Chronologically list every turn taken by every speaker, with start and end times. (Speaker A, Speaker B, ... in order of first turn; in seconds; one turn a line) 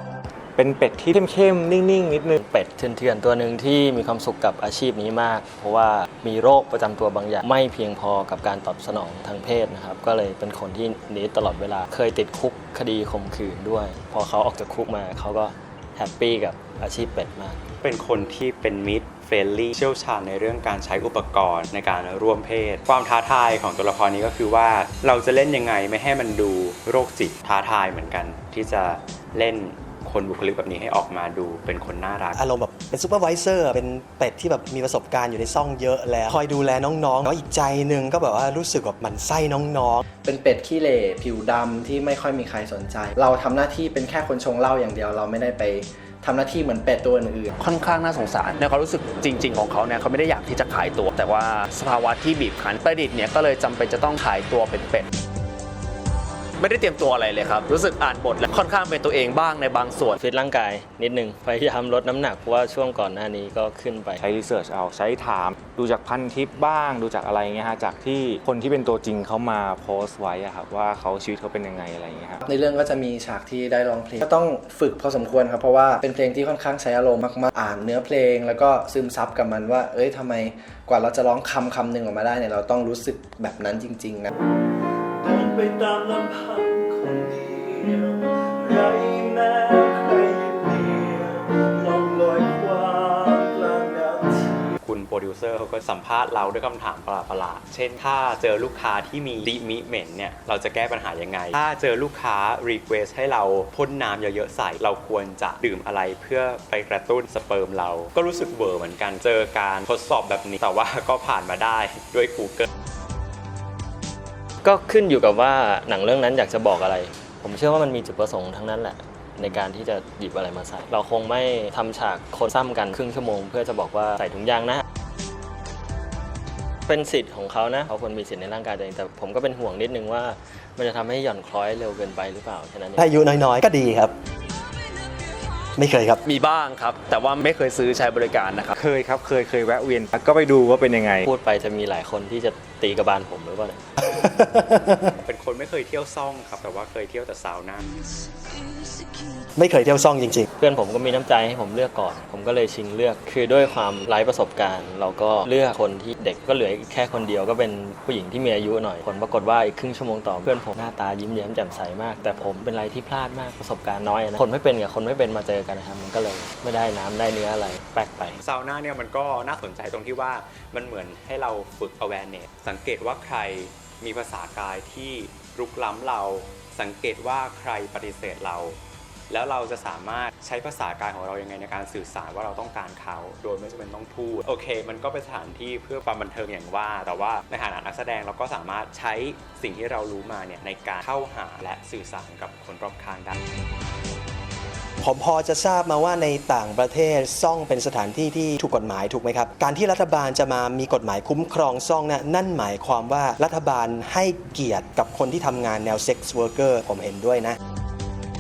Speaker A: 0.6-2.4
Speaker B: 2.4-17.6
Speaker C: 17.8-32.4
Speaker D: 32.3-40.0
Speaker E: 40.2-47.5
Speaker F: 47.6-55.1
Speaker F: 56.6-60.1
Speaker B: 60.1-64.2
Speaker A: 64.2-72.4
Speaker E: 72.4-84.3
Speaker G: 85.2-94.8
Speaker C: 94.8-112.7
Speaker B: 114.6-124.8
Speaker B: 126.9-133.1
Speaker D: 133.0-134.2
Speaker D: 135.8-136.2
Speaker F: 136.2-138.8
Speaker A: 138.8-141.3
Speaker B: 141.2-143.8
Speaker D: 144.0-145.2
Speaker C: 145.2-148.0
Speaker D: 149.6-150.5
Speaker B: 150.6-168.4
Speaker C: 168.4-178.8
Speaker C: 179.3-193.4
Speaker D: 195.0-207.6